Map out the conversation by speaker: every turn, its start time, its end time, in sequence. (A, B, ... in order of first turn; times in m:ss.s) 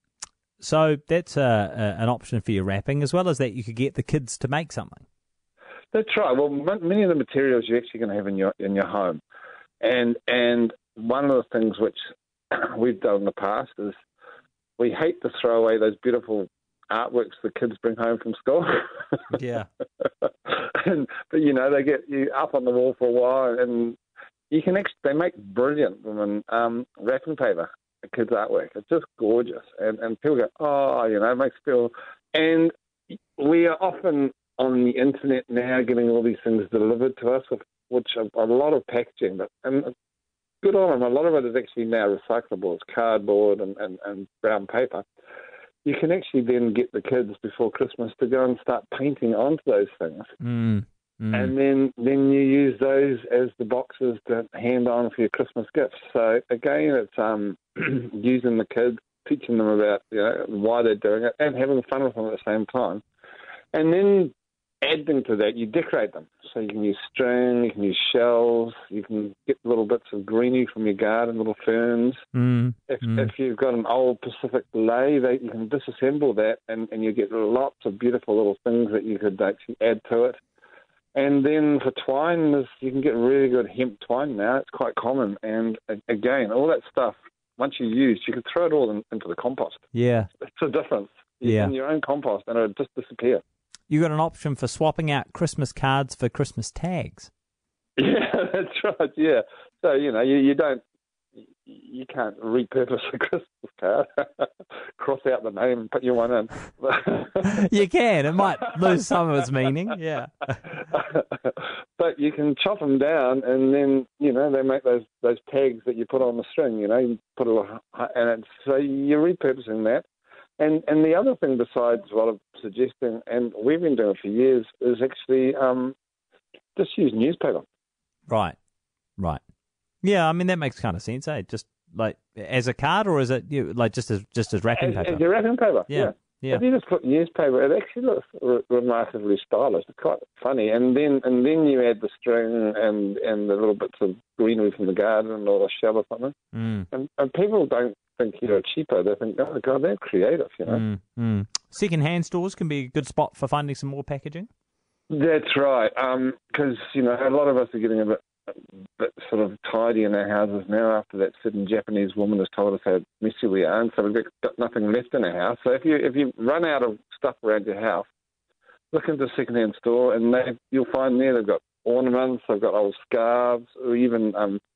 0:00.6-0:05.0 A
0:05.9-0:09.2 B
0:09.8-0:12.0 B
0:12.5-0:13.9 B
0:14.8-0:19.4 B
0:19.3-0:19.7 A
0:20.2-0:24.0 B
0:24.5-0:39.9 B
0:40.6-0:45.0 B
0:45.8-0:50.3 B
0:50.4-0:51.5 A
0:51.3-1:03.0 B
1:03.7-1:12.2 B
1:12.3-1:13.3 A
1:12.9-1:20.4 B
1:21.1-1:29.8 B
1:29.9-1:30.3 A
1:30.4-1:33.4 B
1:31.4-1:31.7 A
1:33.9-1:37.3 A
1:38.0-1:40.8 B
1:41.4-1:47.6 B
1:47.5-1:50.6 A
1:48.6-1:49.0 B
1:50.7-2:00.0 B
2:00.6-2:05.9 B
2:06.8-2:07.6 B
2:08.3-2:08.6 A
2:10.0-2:15.2 A
2:14.8-2:26.3 B
2:15.9-2:16.6 A
2:26.5-2:26.9 A
2:26.9-2:30.8 B
2:30.7-2:34.5 A
2:35.1-2:38.2 B
2:39.0-2:48.1 B
2:48.9-2:54.6 B